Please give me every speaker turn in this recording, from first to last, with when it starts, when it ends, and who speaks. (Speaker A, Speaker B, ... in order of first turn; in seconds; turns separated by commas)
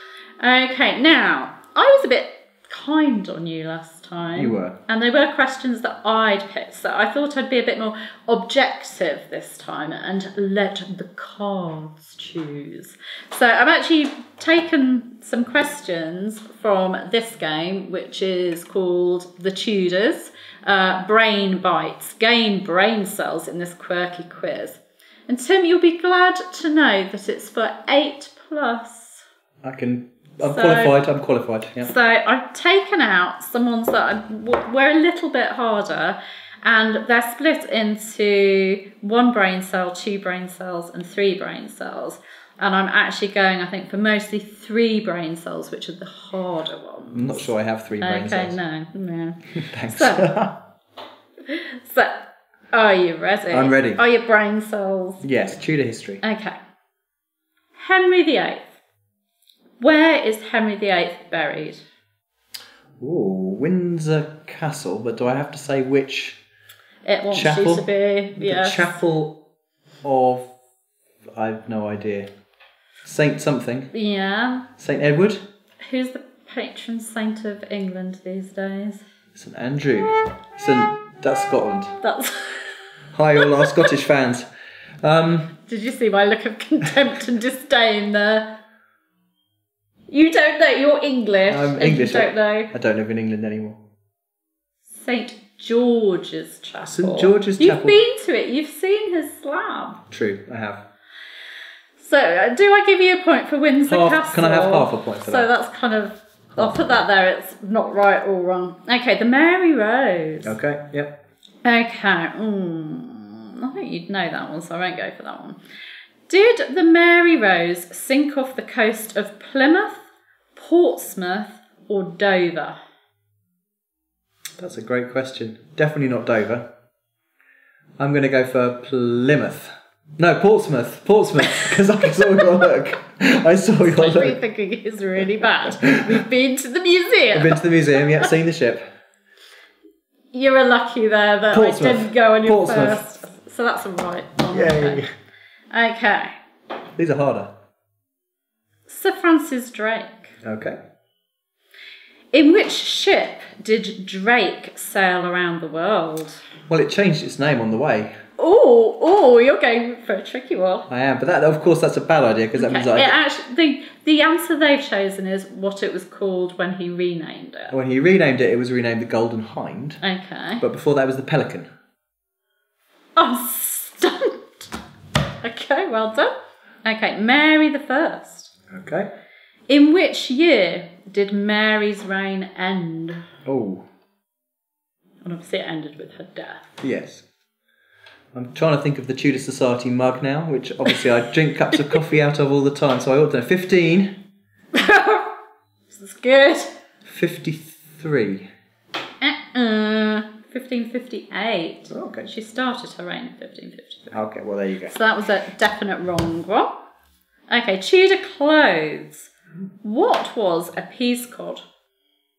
Speaker A: 0.4-29.2, Speaker B: 4.4-4.8, Speaker B: 29.6-31.9, Speaker A: 30.4-31.0, Speaker A: 31.8-50.3, Speaker B: 47.1-48.6, Speaker B: 49.6-50.6, Speaker A: 51.5-55.2, Speaker B: 53.5-54.0, Speaker B: 55.2-56.2, Speaker A: 56.2-56.5, Speaker A: 57.8-58.7, Speaker A: 59.8-61.8, Speaker B: 63.0-66.4, Speaker A: 67.0-69.0, Speaker B: 67.3-69.4, Speaker B: 70.0-70.5, Speaker B: 71.3-72.3, Speaker B: 73.0-73.9, Speaker A: 73.9-74.7, Speaker B: 74.8-75.5, Speaker A: 75.8-79.0, Speaker B: 79.3-82.0, Speaker A: 82.0-82.8, Speaker B: 83.1-84.5, Speaker A: 83.4-83.9, Speaker B: 85.0-85.5, Speaker A: 85.7-88.5, Speaker A: 90.1-92.7, Speaker B: 91.5-93.8, Speaker A: 95.0-100.0, Speaker B: 96.8-98.0, Speaker B: 100.1-100.8, Speaker A: 102.0-110.5, Speaker B: 103.9-105.5, Speaker B: 106.6-106.8, Speaker B: 110.4-111.2, Speaker A: 111.7-115.6, Speaker A: 116.3-120.0, Speaker A: 120.5-122.8, Speaker B: 124.6-126.7, Speaker B: 128.0-134.4, Speaker A: 131.4-132.8, Speaker A: 133.8-138.3, Speaker B: 135.7-136.2, Speaker B: 137.3-138.9, Speaker A: 140.3-145.0, Speaker B: 141.5-143.0, Speaker B: 144.5-145.1, Speaker A: 145.7-146.3, Speaker B: 147.0-147.5, Speaker A: 148.9-150.3, Speaker B: 150.4-150.8, Speaker A: 152.3-156.4, Speaker B: 156.7-158.1, Speaker A: 158.4-160.9, Speaker B: 160.9-163.2, Speaker A: 162.6-167.7, Speaker B: 167.7-170.0, Speaker A: 170.0-170.6, Speaker B: 170.6-171.7, Speaker A: 173.2-174.7, Speaker A: 175.4-176.3, Speaker A: 176.8-178.5, Speaker B: 178.7-179.1, Speaker A: 179.7-183.2, Speaker B: 183.5-183.9, Speaker A: 185.2-186.7, Speaker B: 186.8-187.2, Speaker B: 188.3-194.1, Speaker A: 194.7-195.3, Speaker A: 195.9-196.7, Speaker B: 197.1-198.5, Speaker A: 199.2-204.2, Speaker B: 201.9-202.3, Speaker B: 204.1-204.9, Speaker A: 204.9-206.7, Speaker A: 207.5-209.3, Speaker A: 209.8-211.6